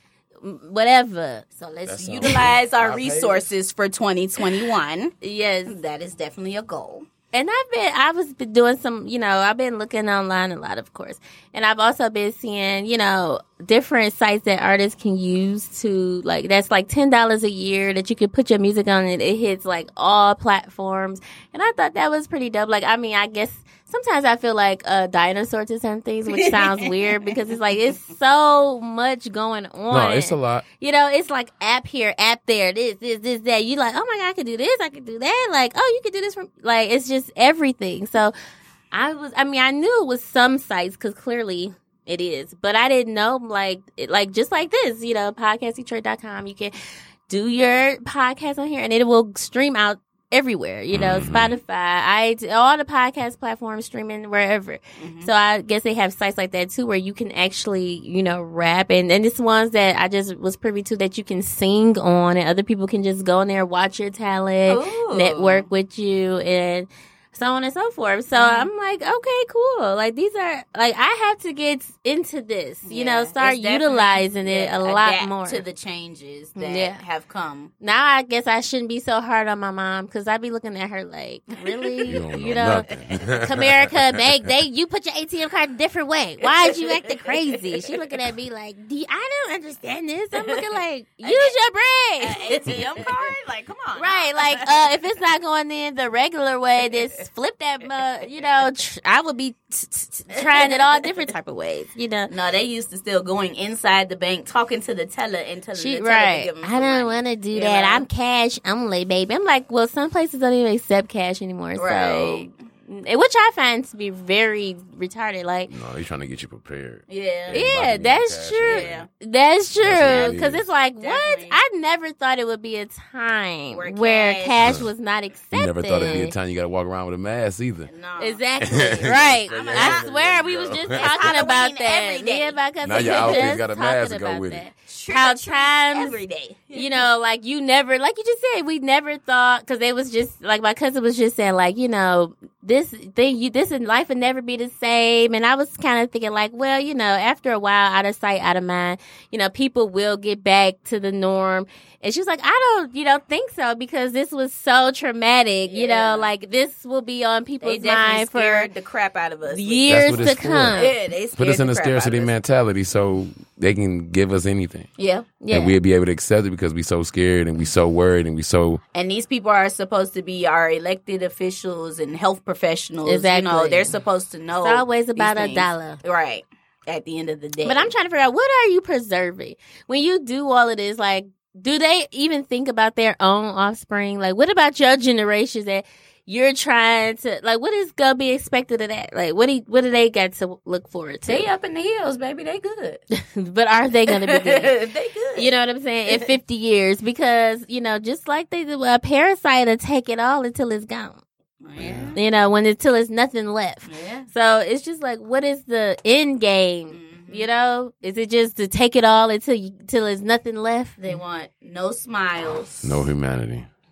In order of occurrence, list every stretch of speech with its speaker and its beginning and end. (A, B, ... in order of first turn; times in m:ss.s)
0:00.4-0:01.6 A
0:01.6-0:05.1 B
0:01.8-0:03.5 C
0:05.2-0:05.7 A
0:05.7-0:07.1 B
0:07.3-0:38.3 A
0:26.3-0:27.4 B
0:29.9-0:30.6 C
0:38.9-0:46.7 A
0:47.3-1:15.6 A
0:50.9-0:51.6 C
0:55.0-0:55.3 B
1:04.7-1:05.6 B
1:08.3-1:08.7 B
1:12.8-1:17.7 B
1:16.6-1:17.0 A
1:17.8-1:32.8 A
1:22.1-1:24.2 C
1:31.2-1:31.5 B
1:32.2-1:34.8 B
1:34.0-1:42.3 A
1:40.3-1:40.8 B
1:42.3-1:48.0 B
1:45.8-1:55.7 A
1:51.8-1:52.5 B
1:55.7-1:59.0 C
1:57.1-1:57.6 B
1:57.5-2:06.3 A
1:58.6-1:59.1 B
1:59.8-2:00.6 C
2:00.0-2:00.4 B
2:01.0-2:01.6 B
2:03.7-2:04.6 B
2:04.6-2:04.9 C
2:05.5-2:07.9 C
2:07.9-2:10.1 B
2:08.2-2:16.2 A
2:08.6-2:11.4 C
2:10.8-2:13.6 B
2:12.8-2:14.6 C
2:14.9-2:17.1 B
2:16.7-2:38.7 A
2:35.7-2:36.3 B
2:37.6-2:42.3 B
2:39.5-2:40.9 A
2:39.9-2:44.9 C
2:45.0-2:45.3 B
2:45.4-2:45.7 A
2:45.5-2:48.8 C
2:48.9-2:57.9 B
2:53.0-2:53.9 A
2:54.6-2:56.0 A
2:57.6-3:11.5 A
3:11.2-3:13.0 B
3:13.1-3:14.8 A
3:14.1-3:15.5 B
3:15.4-3:21.2 A
3:21.6-3:22.2 B
3:21.8-3:22.2 C
3:22.1-3:31.0 A
3:23.9-3:24.3 B
3:26.9-3:27.5 B
3:31.0-3:33.1 B
3:32.8-3:33.7 C